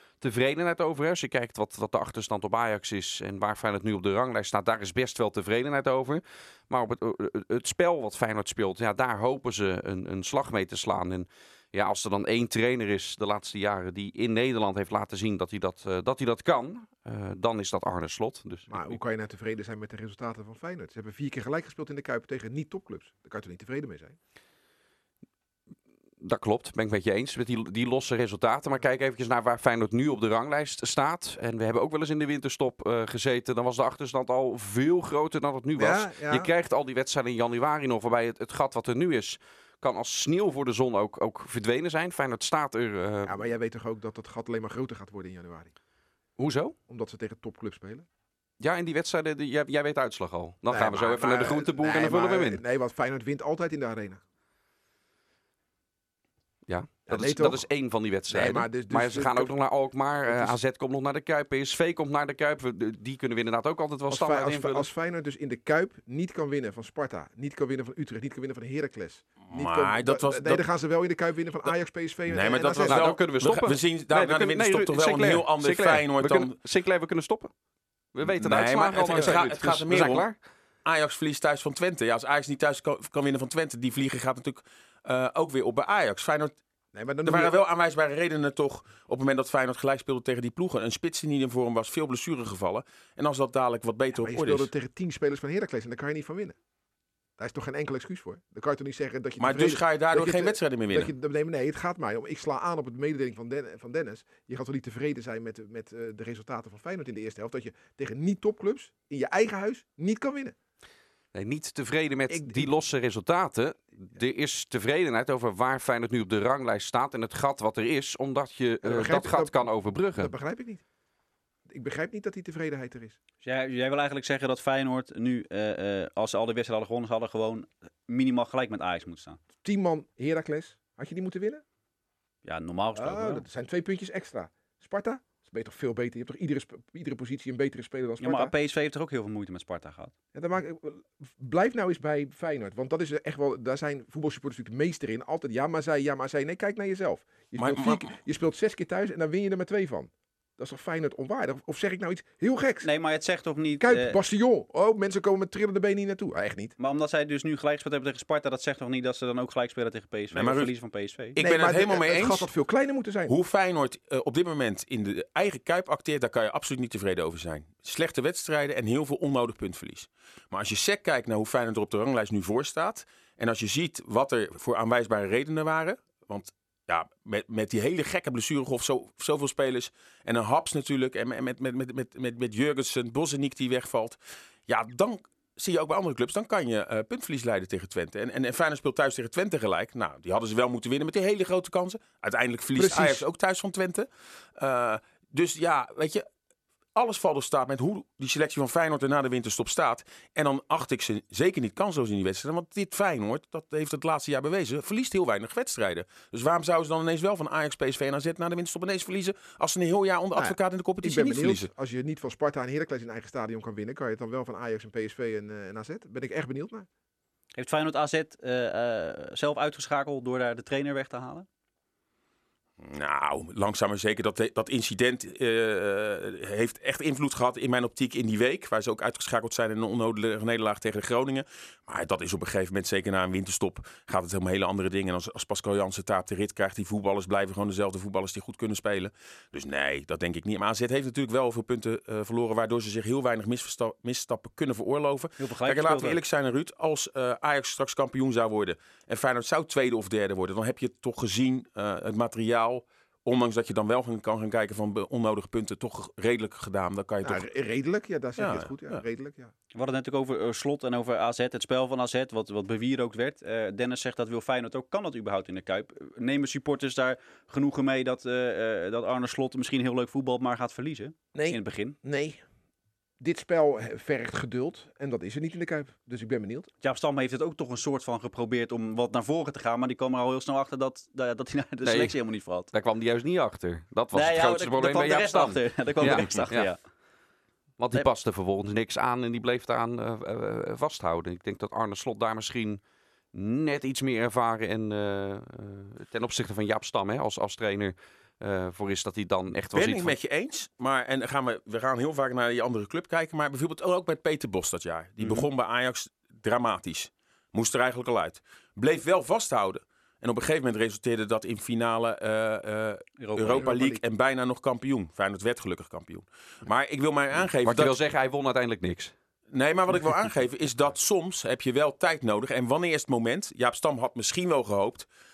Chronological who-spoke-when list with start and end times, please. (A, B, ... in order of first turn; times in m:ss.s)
0:00.2-0:19.0 A
0:18.7-0:24.2 B
0:26.2-0:43.4 A
0:35.8-0:36.5 B
0:43.2-0:45.7 B
0:46.4-0:46.8 A
0:46.9-0:48.0 B
0:48.6-0:52.6 A
0:50.7-0:54.2 B
0:56.7-1:04.9 A
0:57.1-0:57.6 B
0:58.3-0:59.6 B
1:00.3-1:00.6 B
1:04.1-1:13.1 B
1:09.5-1:10.6 C
1:12.3-1:16.5 C
1:12.8-1:17.5 A
1:18.1-1:20.3 A
1:18.3-1:20.2 C
1:20.8-1:26.6 C
1:26.9-1:27.5 B
1:27.2-1:34.7 C
1:34.2-1:36.6 B
1:37.4-1:50.5 B
1:39.4-1:41.1 C
1:51.3-2:00.3 A
1:52.3-1:52.7 B
1:58.8-2:00.8 B
2:01.7-2:03.2 B
2:03.4-2:09.4 D
2:09.6-2:11.6 B
2:12.4-2:13.4 D
2:12.9-2:18.5 B
2:18.2-2:20.1 D
2:20.3-2:32.9 B
2:27.6-2:28.1 C
2:32.8-2:34.2 D
2:33.8-2:36.7 B
2:36.8-2:41.4 D
2:40.3-2:40.7 C
2:41.3-2:42.5 C
2:41.4-2:43.3 B
2:43.3-3:16.2 C
3:12.7-3:13.2 B
3:16.9-3:31.7 C
3:30.3-3:36.9 B
3:37.6-3:41.5 D
3:42.8-4:17.4 C
4:05.4-4:06.2 D
4:17.2-4:19.5 B
4:18.4-4:19.0 C
4:19.7-4:32.0 D
4:31.3-4:32.4 B
4:33.2-4:36.7 B
4:36.8-4:42.7 D
4:41.8-4:42.2 A
4:42.7-4:46.7 A
4:44.1-4:46.8 D
4:47.8-4:52.8 A
4:53.3-5:00.1 A
4:59.7-5:17.9 C
5:05.2-5:05.5 D
5:13.2-5:13.7 D
5:13.5-5:14.0 B
5:17.6-5:19.1 A
5:19.5-5:25.1 C